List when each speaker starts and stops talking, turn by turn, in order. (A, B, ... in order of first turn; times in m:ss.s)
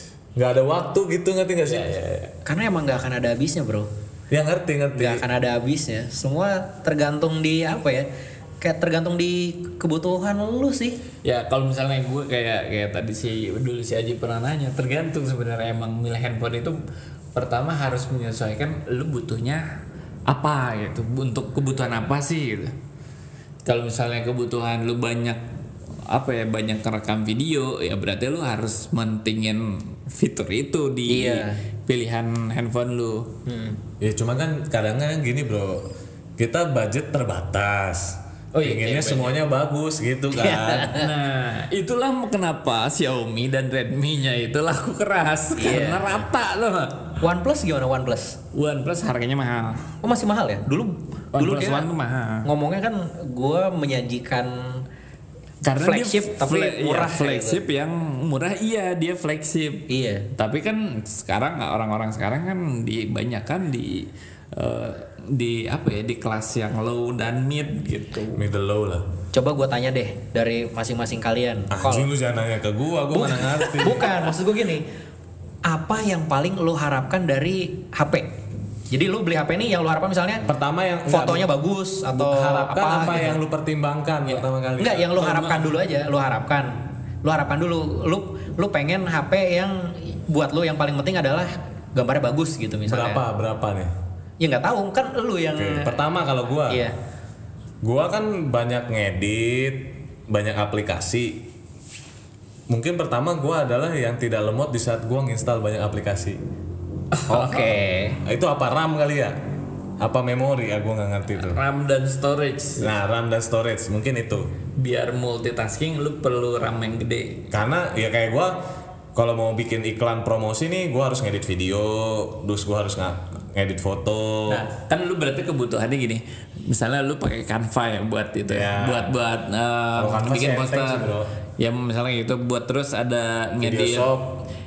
0:00.4-0:01.9 A
0:01.7-0:02.3 B
0:02.5-0:03.9 C
0:04.3-0:05.2 A
0:05.0-0:08.1 C
0:08.6-0:11.0 C
0:11.2-0:16.8 B
0:17.4-0:19.7 B
0:20.3-0:22.8 B
0:23.6-0:25.4 B
0:26.1-0:33.3 B
0:31.1-0:31.6 C
0:33.5-0:33.8 C
0:34.0-0:35.9 A
0:36.4-0:41.0 A
0:38.5-0:39.4 B
0:40.3-0:41.1 C
0:40.9-0:47.2 B
0:45.6-0:46.2 C
0:47.2-0:48.4 C
0:48.5-0:49.9 B
0:50.0-0:51.9 C
0:51.3-0:52.5 B
0:52.4-0:54.8 C
0:55.6-1:08.4 B
0:55.8-0:57.6 C
0:59.9-1:00.3 C
1:08.4-1:09.1 A
1:09.3-1:12.1 C
1:11.7-1:14.1 A
1:13.1-1:14.8 C
1:15.6-1:18.3 C
1:18.9-1:20.5 C
1:20.4-1:21.5 A
1:21.1-1:23.4 C
1:22.1-1:25.1 A
1:24.8-1:33.2 C
1:25.2-1:25.7 B
1:32.9-1:33.9 A
1:34.4-1:36.0 C
1:35.6-1:36.8 A
1:36.7-1:36.9 C
1:37.8-1:41.5 A
1:42.7-1:46.4 A
1:47.1-1:47.8 B
1:47.3-1:48.2 C
1:48.2-1:49.4 A
1:50.0-1:51.6 A
1:51.3-1:52.9 B
1:52.8-1:54.5 A
1:54.8-1:57.5 B
1:57.5-1:58.6 A
1:59.2-2:04.7 A
2:04.5-2:14.1 B
2:08.5-2:09.1 A
2:09.9-2:11.3 A
2:13.6-2:14.4 A